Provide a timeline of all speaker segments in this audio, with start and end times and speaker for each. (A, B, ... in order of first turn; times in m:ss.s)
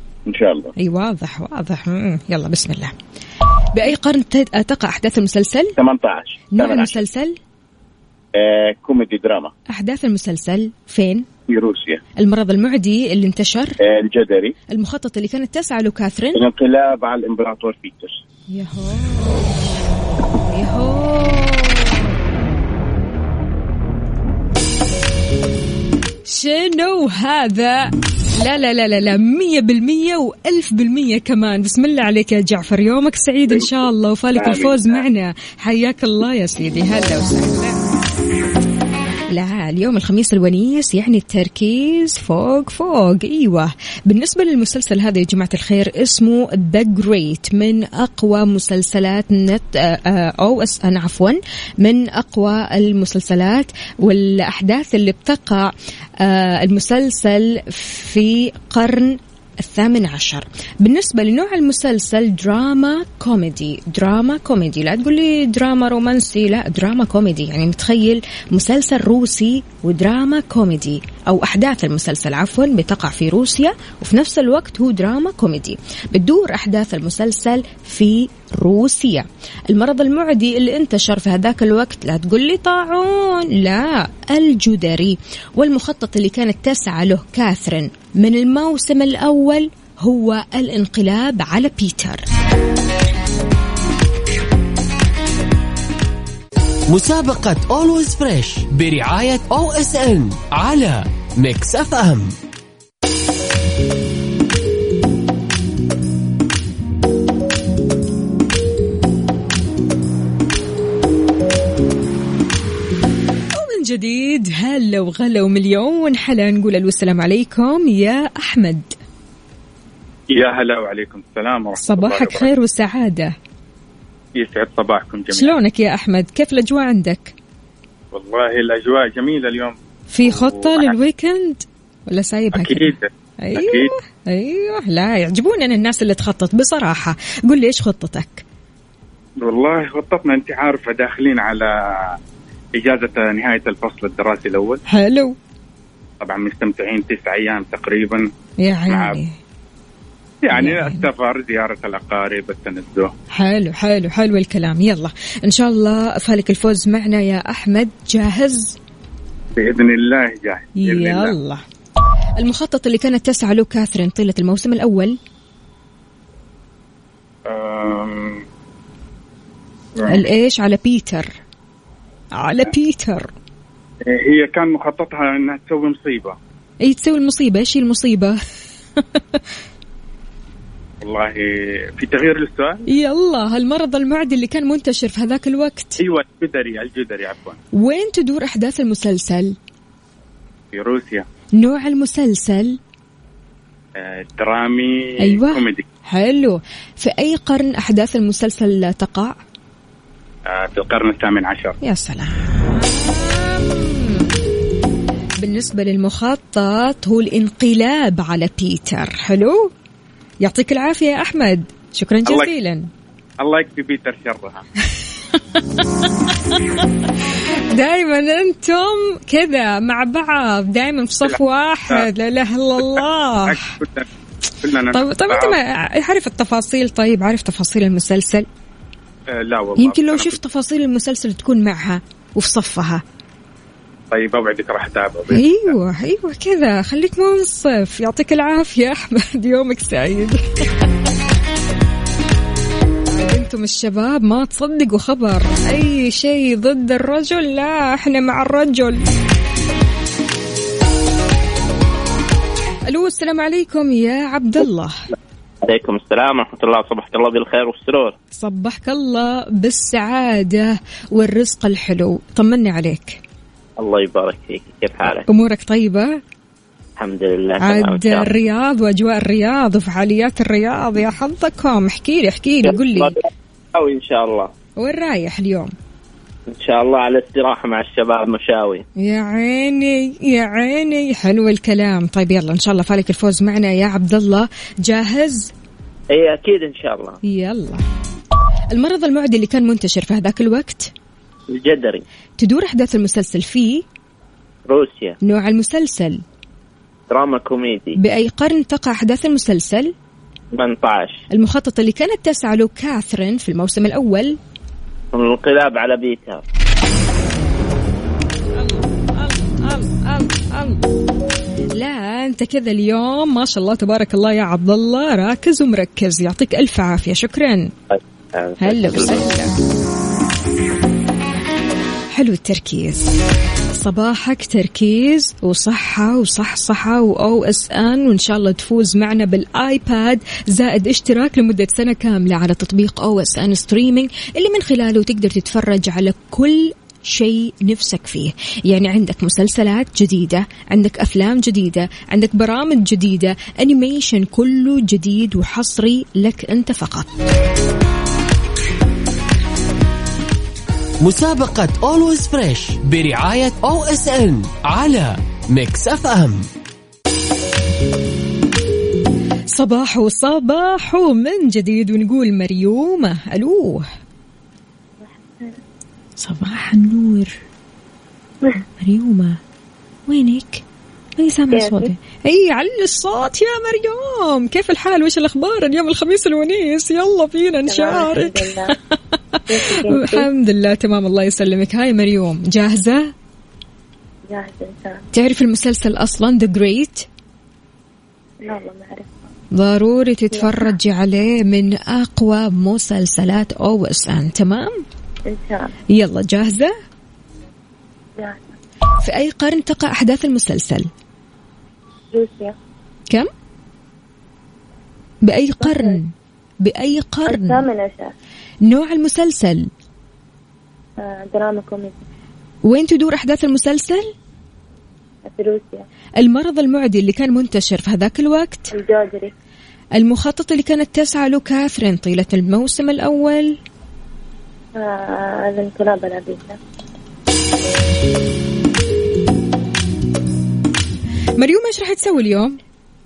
0:00.3-0:00.7 A
0:00.8-0:02.9 B
0:03.7-0:05.8 B
0:05.8-0:07.0 A
0:06.5-0:07.4 B
0:08.4-0:09.5 A
0:09.7-0:11.3 B
0:11.5-0:12.0 A
0:12.2-0:13.8 B
0:13.8-0:14.5 A
0:14.7-0:16.4 B
0:16.3-0:18.2 A
0:18.5-0:19.6 B
0:20.5-0:22.1 B
0:26.3-0:37.8 B
0:33.5-0:33.8 A
0:34.3-0:35.0 A
0:39.3-1:32.2 B
1:36.9-1:42.4 C
1:53.5-1:58.9 B
2:00.3-2:02.5 D
2:01.8-2:03.3 B
2:04.4-2:05.6 D
2:05.3-2:07.3 B
2:08.1-2:11.0 D
2:10.1-2:18.4 B
2:12.5-2:13.9 D
2:19.4-2:22.2 D
2:22.8-2:24.8 D
2:24.9-2:25.4 B
2:26.2-2:28.3 D
2:28.6-2:29.4 B
2:28.9-2:29.2 D
2:30.4-2:33.1 D
2:30.5-2:31.1 B
2:33.3-2:38.8 B
2:39.6-2:41.4 D
2:40.8-2:41.6 B
2:42.4-2:45.2 B
2:47.5-2:48.4 D
2:50.0-2:50.2 D
2:50.1-2:51.3 B
2:52.4-2:53.3 B
2:54.1-2:56.4 D
2:56.8-2:58.4 B
2:59.0-2:59.4 B
3:01.0-3:02.8 D
3:02.9-3:06.0 B
3:06.0-3:07.6 D
3:07.7-3:09.5 B
3:10.7-3:11.2 D
3:11.6-3:12.8 B
3:14.0-3:15.8 D
3:15.2-3:19.4 B
3:20.5-3:21.8 D
3:21.8-3:24.3 B
3:25.4-3:29.7 B
3:30.4-3:32.9 B
3:32.2-3:32.5 D
3:33.4-3:34.6 D
3:35.3-3:43.8 B
3:41.2-3:42.1 D
3:42.8-3:44.0 D
3:44.6-3:45.6 D
3:44.9-3:48.5 B
3:49.3-3:50.4 D
3:49.8-3:53.0 B
3:54.1-3:55.8 D
3:55.3-4:00.8 B
4:03.1-4:09.0 B
4:12.9-4:15.0 B
4:15.6-4:18.2 E
4:18.4-4:23.2 B
4:23.8-4:25.3 E
4:25.3-4:26.2 B
4:27.0-4:28.3 E
4:27.6-4:33.1 B
4:32.8-4:33.1 E
4:33.7-4:34.5 E
4:34.8-4:35.7 B
4:36.5-4:38.8 E
4:39.0-4:45.5 B
4:46.1-4:47.2 E
4:47.2-4:47.8 B
4:48.7-4:50.9 B
4:51.5-4:52.0 E
4:52.4-4:53.8 B
4:54.7-4:55.2 E
4:55.2-4:56.2 B
4:57.1-4:58.0 E
4:58.0-4:59.9 B
5:00.5-5:01.2 E
5:01.3-5:04.4 B
5:05.1-5:06.4 E
5:08.5-5:10.8 B
5:11.8-5:17.7 B
5:17.9-5:19.3 E
5:18.6-5:19.5 B
5:22.1-5:23.1 B
5:23.8-5:47.1 B
5:51.0-5:56.5 C
5:59.5-6:03.9 B
6:05.0-6:05.6 F
6:06.2-6:07.4 B
6:08.8-6:09.4 B
6:10.1-6:10.6 B
6:11.2-6:23.1 B
6:11.5-6:11.9 F
6:17.7-6:18.7 F
6:19.5-6:20.3 F
6:24.3-6:25.0 F
6:25.1-6:27.1 B
6:28.4-6:29.1 F
6:29.5-6:34.8 B
6:30.3-6:30.6 F
6:35.3-6:35.7 F
6:35.9-6:36.7 B
6:38.2-6:38.5 F
6:39.0-6:40.9 B
6:42.1-6:42.5 F
6:45.2-6:46.1 B
6:45.6-6:46.0 F
6:46.6-6:47.6 B
6:47.3-6:48.1 F
6:48.6-6:49.7 B
6:51.0-6:52.0 F
6:52.6-6:54.1 B
6:55.3-6:55.8 F
6:56.2-6:58.7 B
6:58.7-6:59.3 F
7:00.0-7:03.6 B
7:04.8-7:06.6 F
7:11.4-7:12.6 B